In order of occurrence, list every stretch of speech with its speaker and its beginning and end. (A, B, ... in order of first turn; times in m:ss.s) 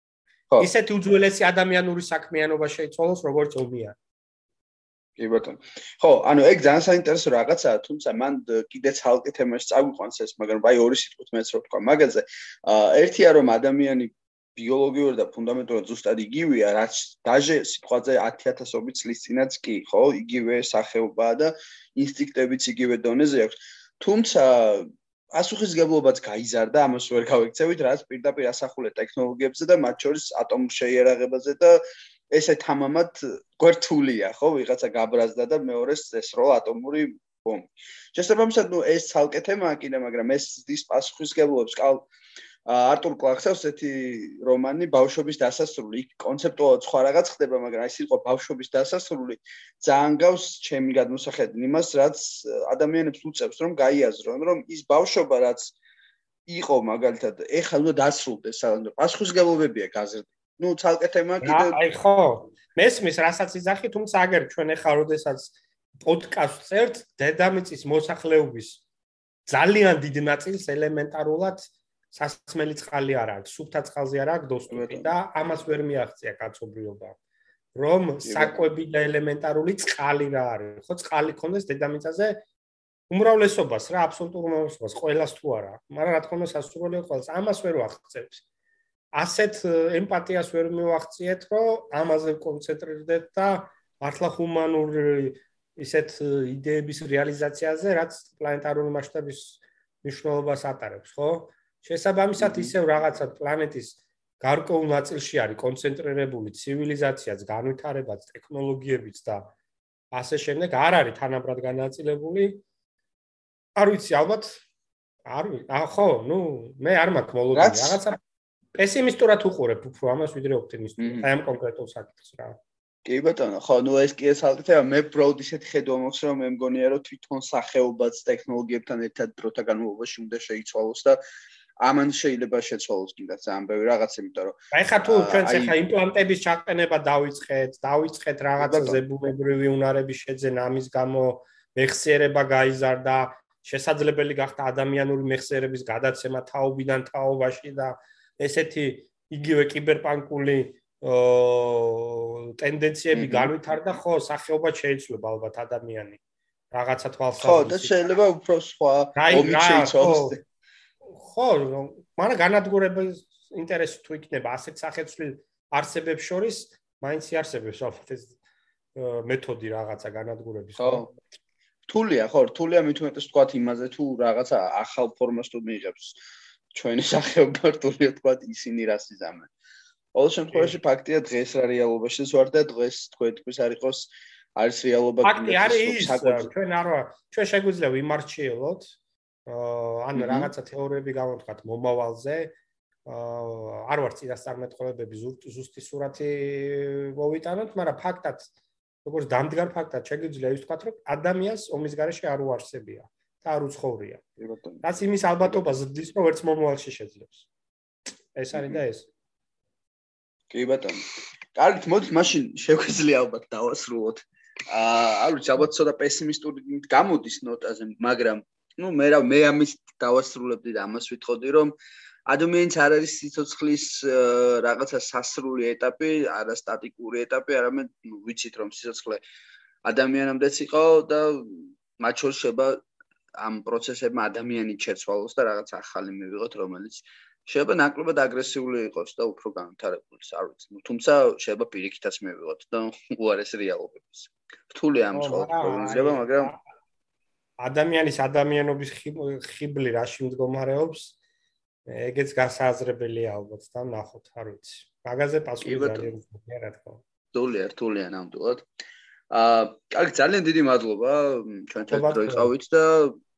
0:00.6-0:04.0 A
0:05.2-0:31.8 B
0:32.3-0:42.1 B
0:42.7-0:55.7 B
0:56.5-1:01.8 B
1:01.4-1:08.8 A
1:09.5-1:17.2 A
1:14.7-1:15.1 B
1:17.7-1:22.4 A
1:18.2-1:18.6 B
1:23.1-1:28.4 A
1:29.1-1:49.5 A
1:42.4-1:42.7 B
1:50.1-1:52.6 A
1:53.8-1:54.6 A
1:55.2-1:58.2 A
1:57.5-1:58.0 B
1:58.8-2:02.6 A
2:01.0-2:01.2 B
2:03.0-2:11.2 B
2:11.8-2:15.8 B
2:14.7-2:36.2 A
2:18.6-2:19.0 B
2:33.1-2:33.5 B
2:36.7-2:38.0 A
2:37.4-2:40.4 B
2:39.2-2:40.4 A
2:41.1-2:48.3 A
2:48.9-2:51.2 A
2:50.8-2:51.1 B
2:51.9-2:56.2 B
2:56.7-2:59.5 B
3:00.1-3:06.5 B
3:00.5-3:00.8 A
3:05.2-3:08.9 A
3:09.4-3:12.5 A
3:10.2-3:10.5 B
3:13.0-3:18.5 A
3:19.0-3:24.2 A
3:24.4-3:24.8 B
3:24.8-3:27.5 A
3:28.3-3:29.1 A
3:28.5-3:28.8 B
3:30.5-3:41.7 B
3:42.3-3:49.2 B
3:49.8-3:52.8 B
3:53.4-4:06.5 B
4:05.1-4:06.6 A
4:07.6-4:11.1 A
4:11.9-4:17.0 A
4:15.6-4:16.1 B
4:17.3-4:18.6 B
4:19.3-4:23.2 B
4:21.9-4:22.5 A